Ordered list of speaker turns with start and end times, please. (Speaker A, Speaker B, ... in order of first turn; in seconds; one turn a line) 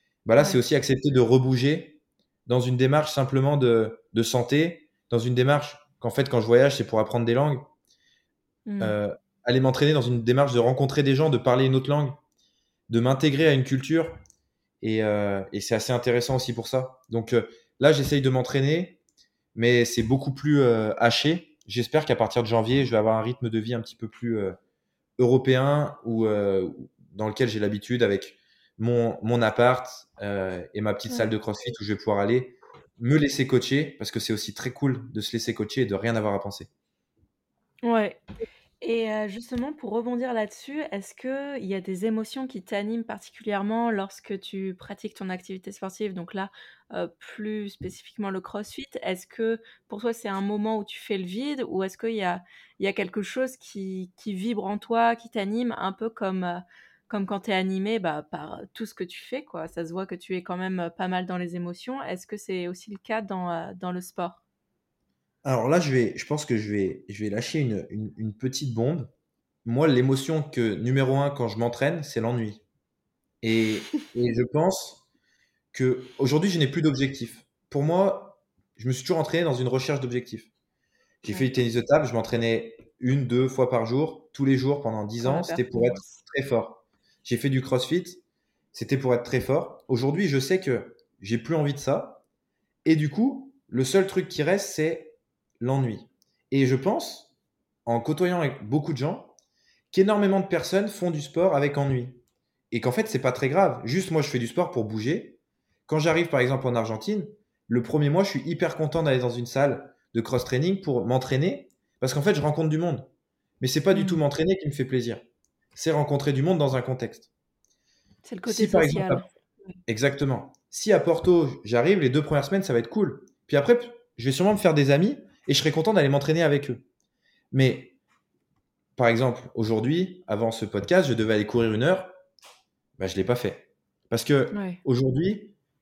Speaker A: 0.3-7.7
Speaker B: 8.7-8.9
Speaker A: 8.8-12.2
Speaker A: 12.9-14.2
Speaker A: 14.8-19.0
Speaker A: 19.6-24.6
Speaker A: 25.2-36.7
Speaker B: 37.8-38.2
Speaker B: 38.8-64.4
Speaker A: 65.4-69.1
Speaker A: 69.7-72.6
Speaker A: 73.4-75.0
Speaker A: 75.7-80.5
Speaker B: 81.2-81.5
Speaker A: 81.3-88.2
Speaker B: 85.2-86.2
Speaker A: 88.7-92.2
Speaker A: 92.8-97.3
Speaker A: 97.9-99.3
Speaker A: 99.9-102.2
Speaker A: 102.7-113.1
Speaker A: 113.6-115.2
Speaker B: 113.9-114.2
Speaker A: 115.8-117.3
Speaker B: 118.2-119.3
Speaker A: 118.5-119.3
Speaker A: 119.9-126.8
Speaker A: 127.5-128.0
Speaker A: 129.0-132.1
Speaker A: 133.0-135.5
Speaker B: 134.5-134.8